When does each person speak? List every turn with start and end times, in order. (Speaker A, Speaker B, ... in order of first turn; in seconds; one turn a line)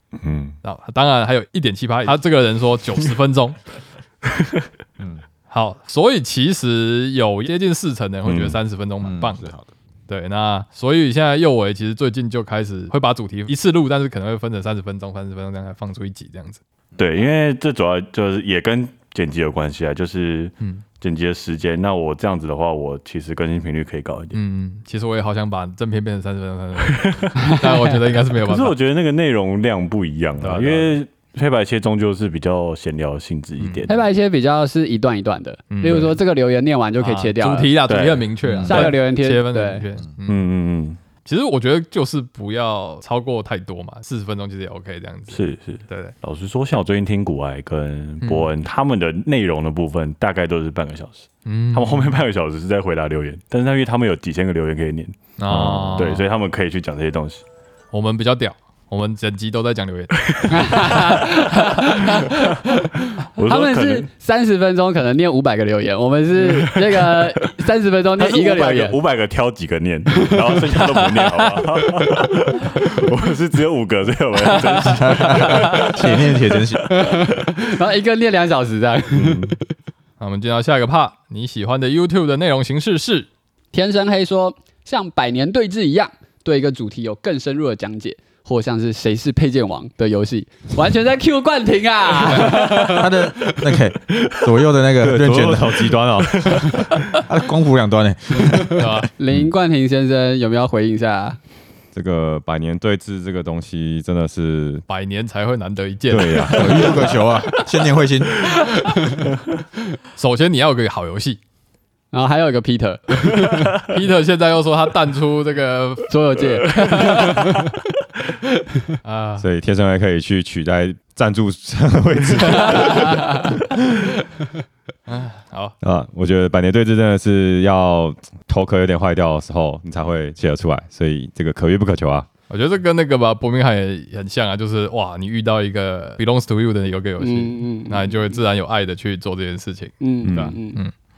Speaker A: 0.2-0.6
Speaker B: 0.6-3.6
Speaker B: 5.5-9.5
Speaker A: 8.3-8.6
Speaker C: 9.0-9.7
Speaker B: 10.1-16.6
Speaker A: 17.0-24.4
Speaker B: 24.3-28.7
Speaker A: 26.9-27.3
Speaker D: 27.4-27.9
Speaker A: 28.4-34.0
Speaker B: 30.4-30.9
Speaker B: 33.6-33.9
Speaker D: 33.9-37.7
Speaker B: 35.7-36.2
Speaker B: 37.0-40.4
Speaker A: 37.9-38.3
Speaker C: 38.5-38.9
Speaker D: 38.6-39.9
Speaker A: 40.3-41.0
Speaker B: 41.2-46.1
Speaker A: 45.3-55.2
Speaker B: 48.2-48.5
Speaker B: 51.5-52.2
Speaker B: 55.4-56.2
Speaker E: 55.5-56.0
Speaker A: 56.0-57.4
Speaker B: 57.9-61.0
Speaker A: 60.3-61.1
Speaker D: 60.5-69.0
Speaker B: 61.7-62.1
Speaker A: 63.4-64.1
Speaker A: 66.4-67.3
Speaker A: 68.2-76.4
Speaker B: 70.8-71.6
Speaker B: 74.5-75.9
Speaker C: 74.9-76.9
Speaker D: 76.9-79.6
Speaker A: 79.1-79.5
Speaker B: 80.2-83.3
Speaker D: 83.7-93.6
Speaker C: 92.8-96.0
Speaker E: 95.0-97.0
Speaker C: 96.6-99.0
Speaker B: 98.7-99.1
Speaker D: 99.2-101.4
Speaker E: 101.9-104.8
Speaker B: 104.9-107.1
Speaker E: 106.1-107.1
Speaker C: 106.5-108.5
Speaker B: 110.2-111.4
Speaker D: 112.1-113.8
Speaker B: 113.9-116.2
Speaker D: 116.1-117.5
Speaker B: 116.9-117.2
Speaker B: 119.0-119.5
Speaker E: 119.4-124.2
Speaker B: 125.1-125.8
Speaker E: 125.8-132.3
Speaker B: 132.5-140.9
Speaker D: 137.2-138.4
Speaker D: 140.0-140.8
Speaker E: 140.2-140.6